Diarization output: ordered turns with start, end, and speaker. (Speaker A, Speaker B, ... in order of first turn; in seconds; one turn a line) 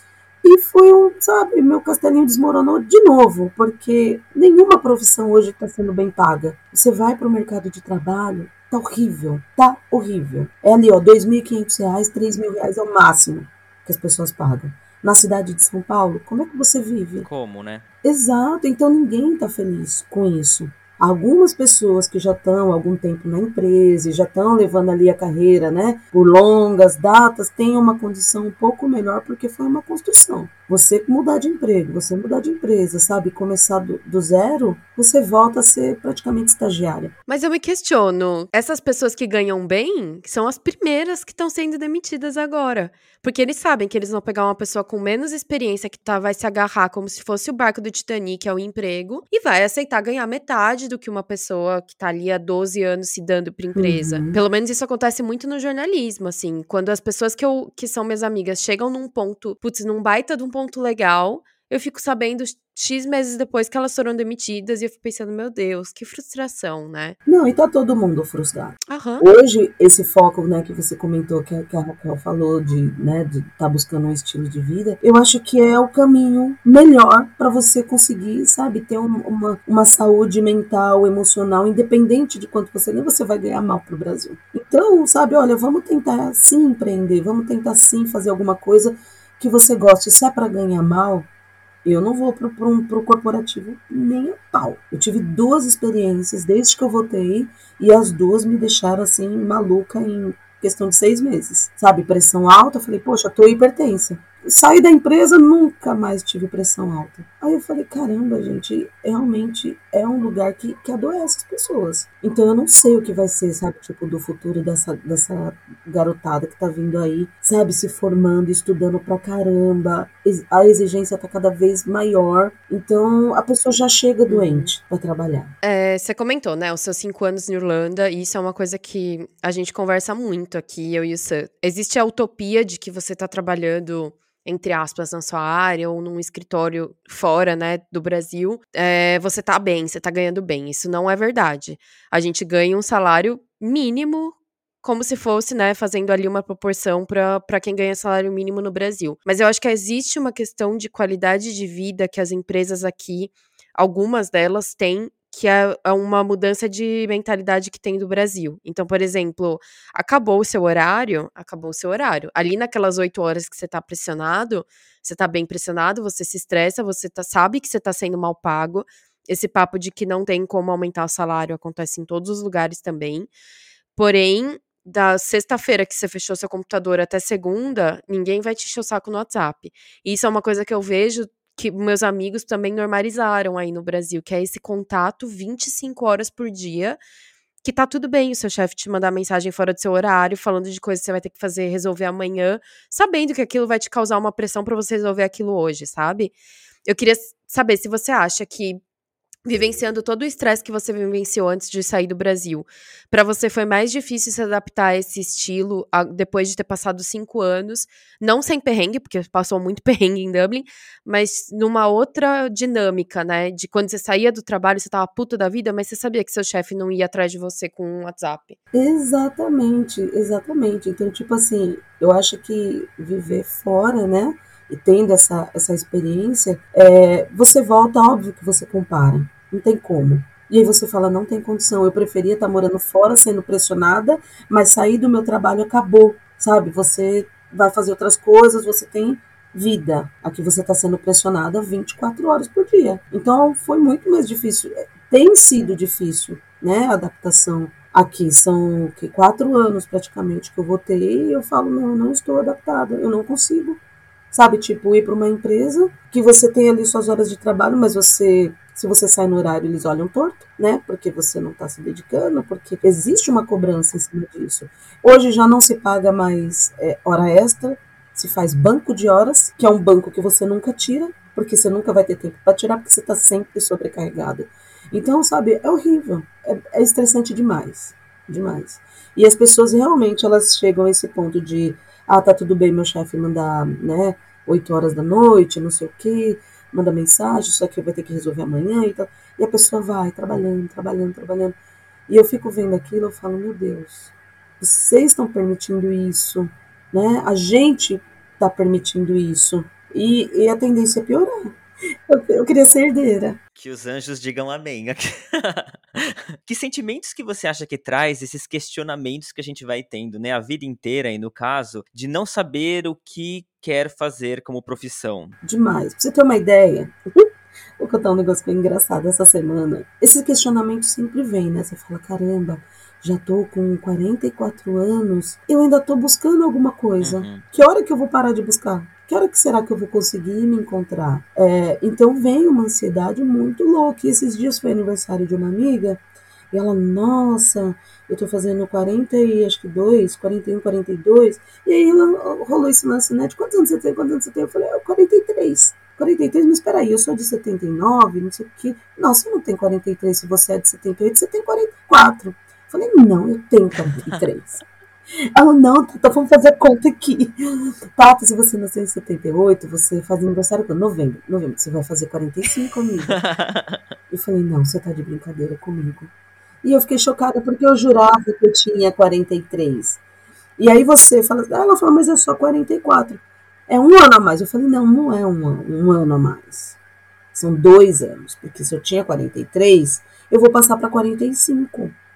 Speaker A: 0.4-17.2
Speaker B: 17.2-17.8
Speaker A: 18.0-37.1
Speaker C: 37.3-67.2
Speaker A: 53.8-54.4
Speaker A: 67.2-91.3
Speaker C: 68.9-69.2
Speaker A: 91.8-125.5
Speaker C: 124.3-124.7
Speaker C: 125.6-173.3
Speaker C: 173.9-187.0
Speaker C: 187.6-196.3
Speaker C: 196.8-198.8
Speaker C: 199.4-218.6
Speaker A: 218.7-253.8
Speaker A: 254.3-291.5
Speaker A: 292.1-301.5
Speaker A: 302.1-303.4
Speaker B: 303.6-315.4
Speaker A: 315.4-336.0
Speaker B: 327.0-327.4
Speaker A: 336.5-354.6
Speaker A: 355.4-357.4
Speaker A: 357.9-363.2
Speaker B: 363.1-363.8
Speaker A: 364.1-366.1
Speaker A: 366.6-370.0
Speaker A: 370.6-376.8
Speaker A: 377.3-381.9